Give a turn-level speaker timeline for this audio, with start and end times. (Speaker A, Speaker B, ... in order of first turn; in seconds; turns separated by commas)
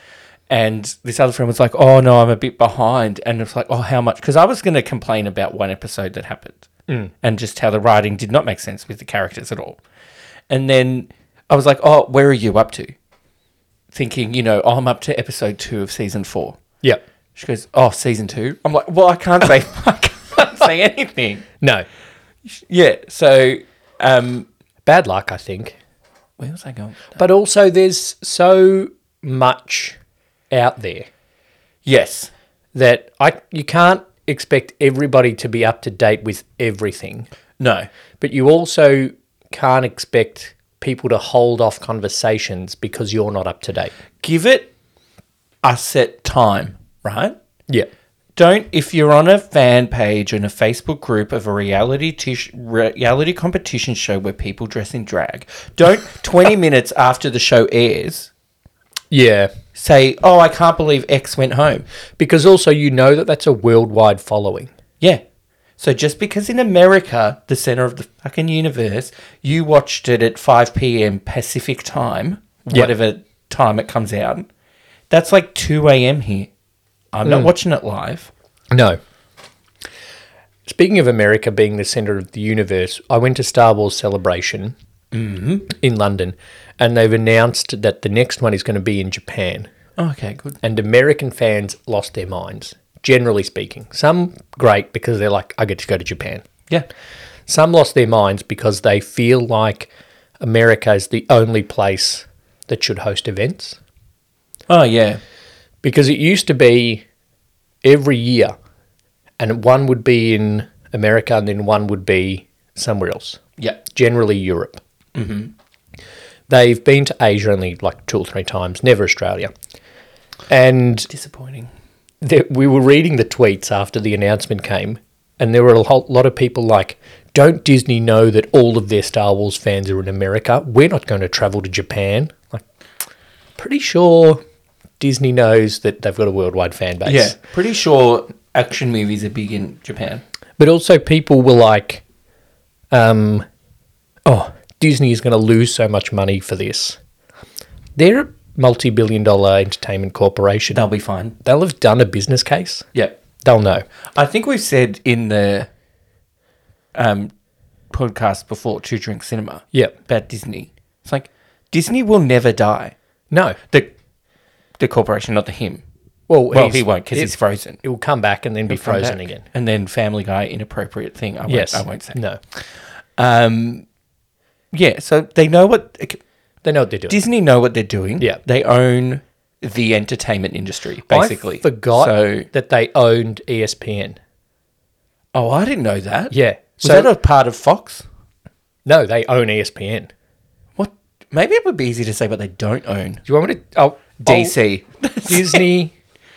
Speaker A: 0.5-6.7, Speaker A: 7.2-9.8, Speaker A: 10.5-12.9, Speaker A: 13.9-16.6, Speaker A: 17.4-21.5, Speaker B: 21.6-21.9, Speaker A: 22.5-24.5, Speaker B: 24.9-25.8, Speaker A: 26.4-27.2, Speaker B: 27.2-30.0, Speaker B: 30.5-31.1, Speaker A: 31.9-32.3, Speaker B: 32.7-37.3, Speaker A: 37.6-37.9, Speaker B: 38.2-43.9, Speaker A: 44.2-44.7, Speaker A: 45.6-47.4, Speaker A: 48.4-58.3, Speaker B: 59.1-59.5, Speaker A: 59.8-61.9, Speaker B: 62.2-64.7, Speaker A: 65.8-74.5, Speaker A: 75.1-76.5, Speaker A: 77.1-78.3, Speaker B: 77.2-77.5, Speaker B: 78.7-79.0, Speaker B: 80.7-84.8, Speaker A: 85.1-85.7, Speaker B: 85.7-89.7, Speaker A: 90.0-90.6, Speaker B: 90.6-96.5, Speaker B: 97.5-103.8, Speaker A: 104.7-105.2, Speaker B: 105.8-107.0, Speaker B: 107.8-108.5, Speaker B: 109.4-114.8, Speaker A: 115.2-115.5, Speaker B: 116.5-119.5, Speaker B: 120.5-121.1, Speaker A: 121.1-121.7, Speaker B: 122.2-132.6, Speaker B: 133.6-134.4, Speaker B: 135.0-137.4, Speaker A: 137.1-140.2, Speaker B: 140.6-142.0, Speaker B: 142.9-143.5, Speaker B: 144.3-147.0, Speaker B: 148.0-150.8, Speaker A: 150.7-151.4, Speaker B: 151.4-152.9, Speaker B: 153.4-153.8, Speaker A: 154.2-155.7, Speaker A: 156.9-157.3, Speaker A: 157.9-162.9, Speaker B: 163.3-163.6, Speaker A: 164.8-165.8, Speaker B: 166.3-169.4, Speaker A: 166.5-167.8, Speaker A: 168.7-173.9, Speaker B: 171.5-172.4, Speaker A: 174.7-176.2, Speaker B: 176.6-177.2, Speaker A: 177.1-182.5, Speaker B: 181.1-184.2, Speaker A: 185.3-188.1, Speaker B: 186.3-187.1, Speaker B: 188.8-190.1, Speaker A: 190.8-193.2, Speaker B: 193.3-194.6, Speaker A: 194.2-195.7, Speaker B: 195.3-195.9